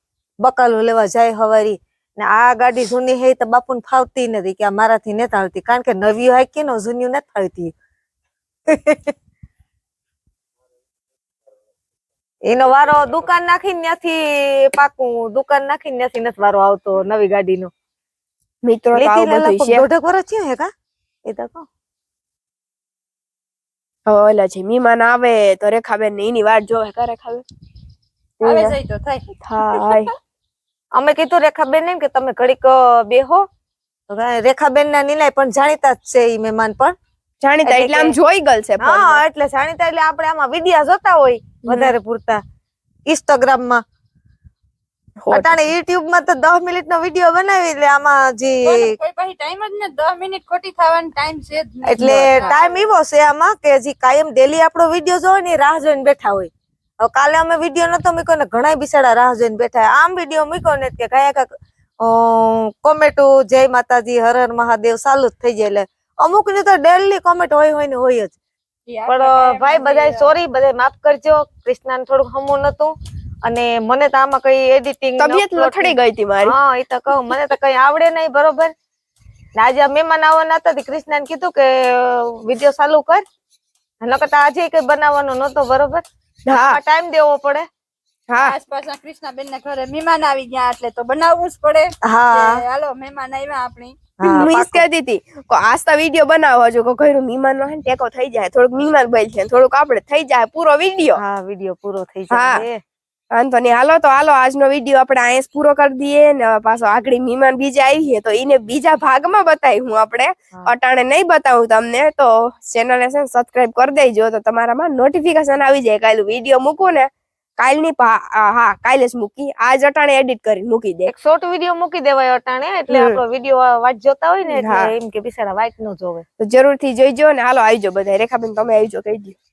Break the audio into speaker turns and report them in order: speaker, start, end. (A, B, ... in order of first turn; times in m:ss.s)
0:00.4-0:07.7 A
0:08.7-0:09.1 A
0:12.4-0:17.7 A
0:18.6-0:19.8 B
0:18.9-0:20.7 A
0:21.3-0:21.7 A
0:24.1-0:27.4 B
0:28.4-0:28.8 B
0:28.4-0:30.0 C
0:29.4-0:30.1 B
0:31.0-0:33.4 A
0:34.1-0:36.9 A
0:37.4-0:39.2 B
0:37.6-0:38.2 A
0:38.8-0:42.4 A
0:41.6-0:41.9 B
0:43.1-0:43.8 A
0:45.2-0:45.7 B
0:45.3-0:49.0 A
0:48.6-0:52.8 C
0:51.8-0:56.5 A
0:52.3-0:52.6 B
0:57.0-1:01.5 A
1:02.0-1:08.4 A
1:08.9-1:10.4 C
1:09.1-1:12.9 A
1:13.4-1:18.7 A
1:15.2-1:16.5 B
1:19.6-1:23.2 A
1:24.0-1:27.6 A
1:26.5-1:26.8 B
1:28.4-1:34.4 C
1:32.1-1:32.6 A
1:34.2-1:34.8 A
1:34.3-1:41.2 B
1:41.2-1:42.8 A
1:42.3-1:42.6 B
1:43.3-2:01.1 B
2:01.1-2:06.2 A
2:02.9-2:03.2 B
2:04.5-2:04.9 B
2:06.4-2:09.4 B